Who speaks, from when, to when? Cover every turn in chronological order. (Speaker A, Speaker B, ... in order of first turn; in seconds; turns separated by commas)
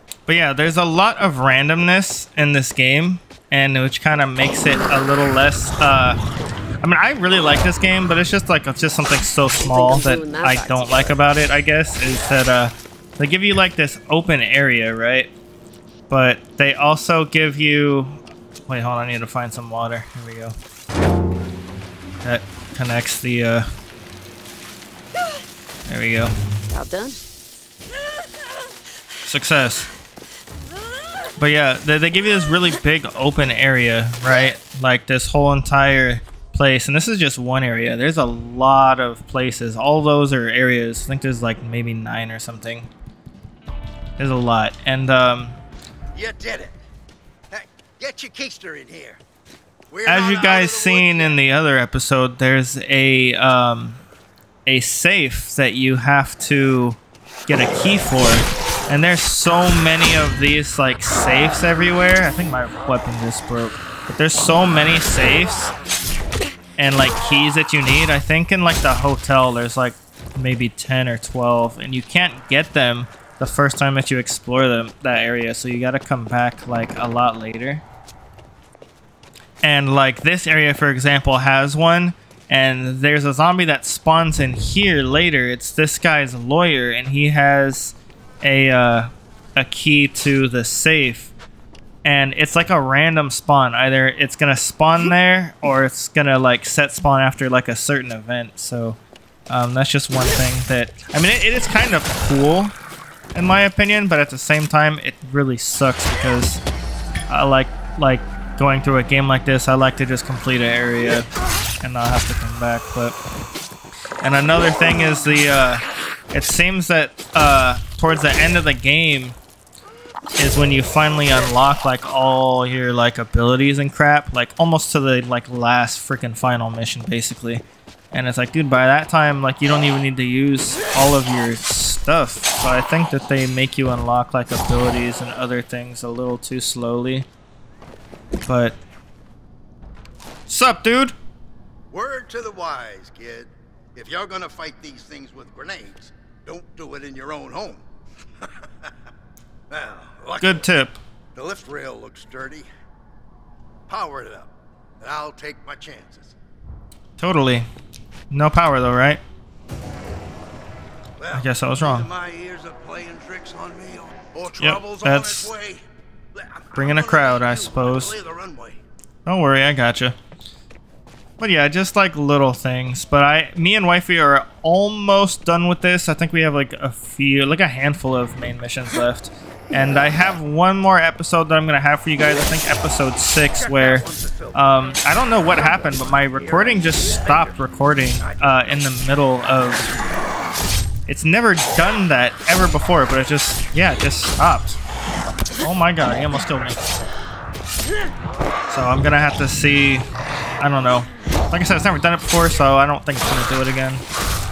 Speaker A: 0.3-6.2, Speaker A: 6.8-15.3, Speaker B: 9.6-11.2, Speaker A: 16.1-20.5, Speaker A: 22.2-23.7, Speaker A: 25.9-26.3, Speaker B: 26.7-27.2, Speaker A: 29.2-29.9, Speaker A: 31.4-42.9, Speaker A: 44.2-45.6, Speaker C: 46.1-46.8, Speaker C: 47.5-49.2, Speaker C: 49.9-51.4, Speaker A: 50.0-54.0, Speaker A: 54.6-65.7, Speaker A: 66.8-77.8, Speaker A: 79.6-91.3, Speaker A: 92.0-102.7, Speaker A: 103.3-106.6, Speaker A: 107.3-111.3, Speaker A: 111.8-113.2, Speaker A: 114.2-119.4, Speaker A: 120.4-137.3, Speaker A: 138.4-138.8, Speaker A: 140.5-141.1, Speaker C: 141.9-147.8, Speaker C: 148.4-148.9, Speaker C: 149.7-150.7, Speaker A: 150.4-151.0, Speaker C: 151.3-152.7, Speaker C: 153.9-156.3, Speaker A: 157.2-157.7, Speaker A: 158.3-159.2, Speaker C: 161.2-168.8, Speaker A: 161.3-162.1, Speaker A: 164.6-165.5, Speaker A: 166.8-168.2, Speaker A: 169.2-170.2, Speaker A: 171.4-189.9, Speaker C: 183.5-188.9, Speaker A: 191.1-194.8, Speaker A: 195.6-196.9, Speaker A: 198.7-200.1, Speaker A: 200.6-204.0